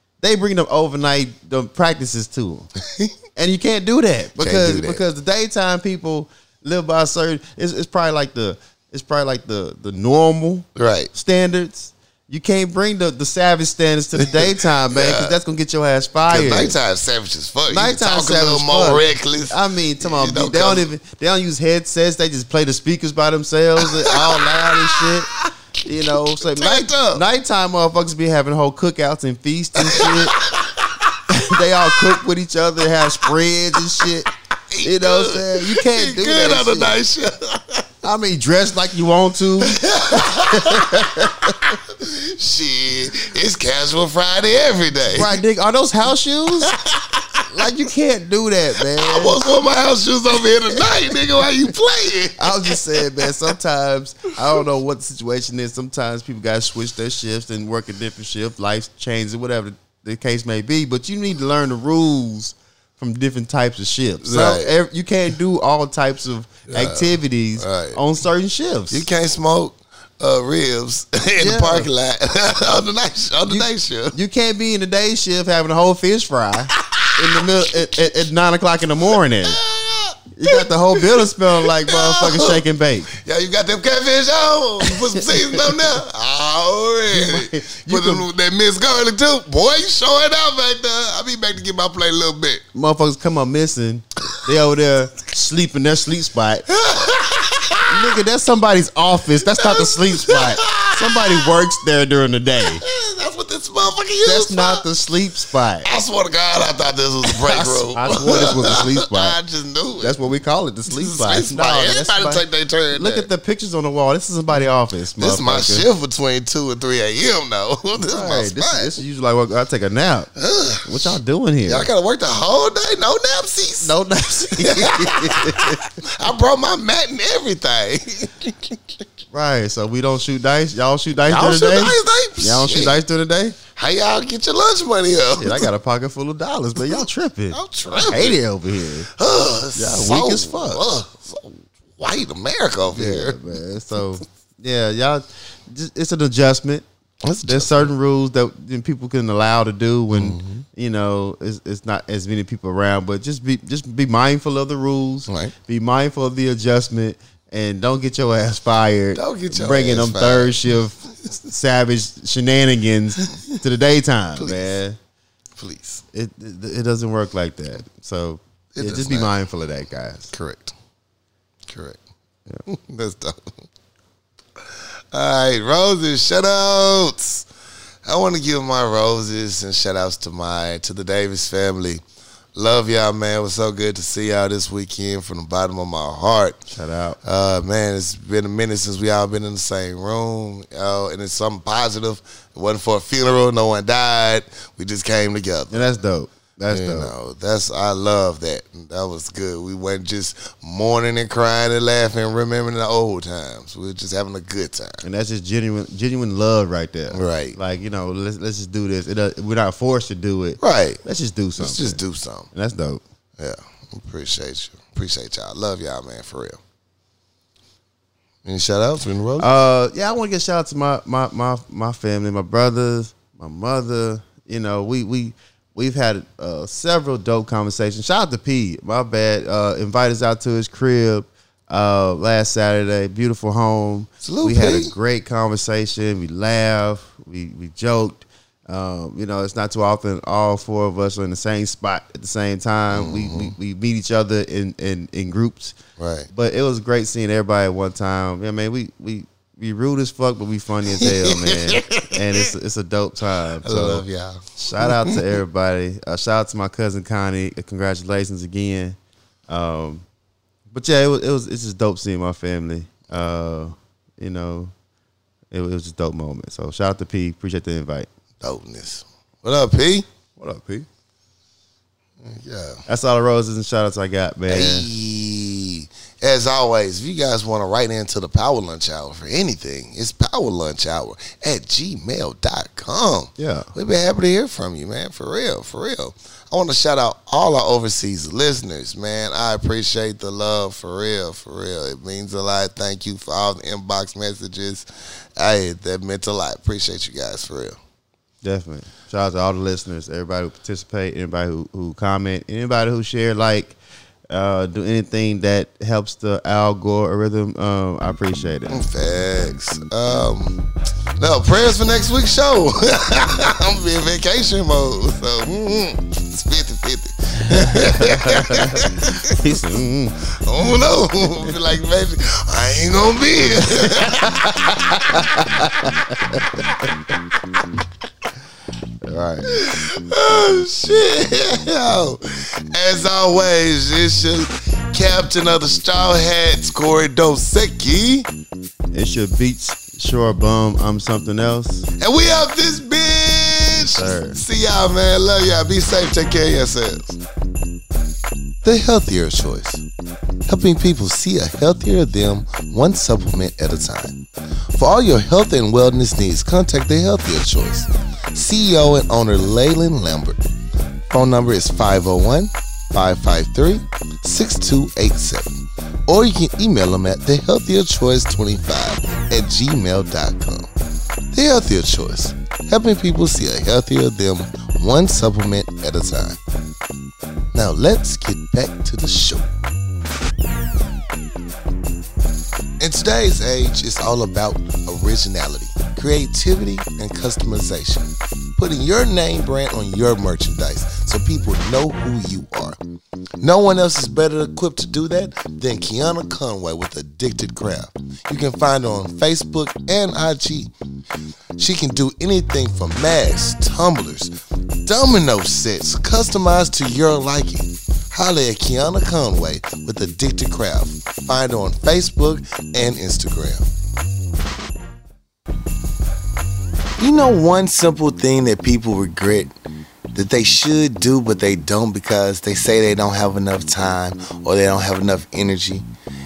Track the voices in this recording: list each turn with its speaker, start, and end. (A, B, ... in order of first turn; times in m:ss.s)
0:00.2-0:02.7 A
0:02.8-0:03.1 B
0:03.4-0:16.8 A
0:04.4-0:05.0 B
0:10.8-0:11.1 B
0:14.9-0:15.4 B
0:16.3-0:20.9 B
0:17.7-0:30.4 A
0:23.8-0:25.5 B
0:26.1-0:27.2 B
0:29.8-0:31.2 B
0:31.3-0:34.3 A
0:34.7-0:37.9 B
0:34.8-0:37.0 A
0:38.0-0:41.6 A
0:39.6-0:45.4 B
0:45.1-0:46.7 A
0:46.6-0:47.6 B
0:47.5-0:49.4 A
0:48.9-0:53.3 B
0:52.4-1:09.1 A
1:04.2-1:04.7 B
1:06.7-1:08.0 B
1:08.9-1:14.2 B
1:11.4-1:11.9 A
1:13.5-1:19.6 A
1:16.8-1:18.0 B
1:19.4-1:32.6 B
1:20.4-1:23.1 A
1:24.9-1:25.5 A
1:27.1-1:28.3 A
1:32.7-1:36.7 A
1:36.7-1:38.2 B
1:37.9-1:42.8 A
1:39.6-1:41.5 B
1:42.6-1:44.8 B
1:44.2-1:45.9 A
1:45.8-1:50.2 B
1:47.3-1:49.4 A
1:50.0-1:55.9 A
1:50.9-1:53.3 B
1:55.2-1:59.0 B
1:58.0-2:00.3 A
2:00.4-2:03.9 B
2:00.8-2:01.9 A
2:03.8-2:05.9 A
2:04.5-2:09.0 B
2:09.3-2:13.6 A
2:11.3-2:13.0 B
2:13.8-2:15.7 B
2:15.4-2:19.1 A
2:16.8-2:18.4 B
2:19.1-2:23.4 B
2:19.8-2:20.8 A
2:22.9-2:26.8 A
2:27.2-2:27.9 B
2:27.5-2:45.0 A
2:30.1-2:30.6 B
2:35.3-2:35.5 B
2:39.2-2:40.6 B
2:44.4-2:44.7 B
2:45.6-2:46.0 B
2:46.1-2:50.3 A
2:48.7-2:49.3 B
2:50.3-2:50.7 B
2:51.7-2:52.0 B
2:52.7-2:53.5 B
2:54.6-2:57.5 B
2:58.0-3:02.0 B
3:02.6-3:06.6 B
3:06.7-3:07.2 A
3:07.2-3:15.8 B
3:15.7-3:17.1 A
3:16.7-3:25.0 B
3:25.0-3:32.0 A
3:27.1-3:27.6 B
3:30.6-3:31.0 B
3:31.6-3:32.5 B
3:32.5-3:33.0 A
3:33.4-3:36.6 B
3:38.4-3:39.5 B
3:39.4-4:05.8 A
3:54.2-3:54.9 B
4:02.9-4:03.5 B
4:06.0-4:06.3 B
4:06.3-4:14.0 A
4:11.0-4:12.5 B
4:13.6-4:15.2 B
4:14.6-4:19.0 A
4:19.5-4:20.0 A
4:20.7-4:24.7 A
4:25.5-4:28.1 A
4:28.4-4:30.1 B
4:30.4-4:30.9 A
4:32.2-4:32.8 B
4:32.9-4:34.9 A
4:34.5-4:54.9 B
4:43.4-4:43.7 A
4:55.4-4:57.8 B
4:58.4-5:03.8 A
5:04.3-5:08.8 A
5:08.7-5:10.7 B
5:11.2-5:19.4 B
5:17.5-5:20.2 A
5:20.4-5:24.5 B
5:23.6-5:26.4 A
5:25.1-5:25.5 B
5:29.0-5:29.6 A
5:29.5-5:38.3 B
5:38.9-5:41.9 A
5:42.0-5:47.2 B
5:43.8-5:44.4 A
5:48.6-5:49.8 B
5:50.5-5:54.2 B
5:54.8-6:00.4 B
6:01.1-6:10.7 B
6:11.3-6:16.4 B
6:17.5-6:19.5 B
6:22.8-6:32.8 B
6:33.4-6:40.7 B
6:41.6-6:44.4 B
6:44.9-6:53.7 B
6:57.0-6:59.5 B
7:00.1-7:05.9 B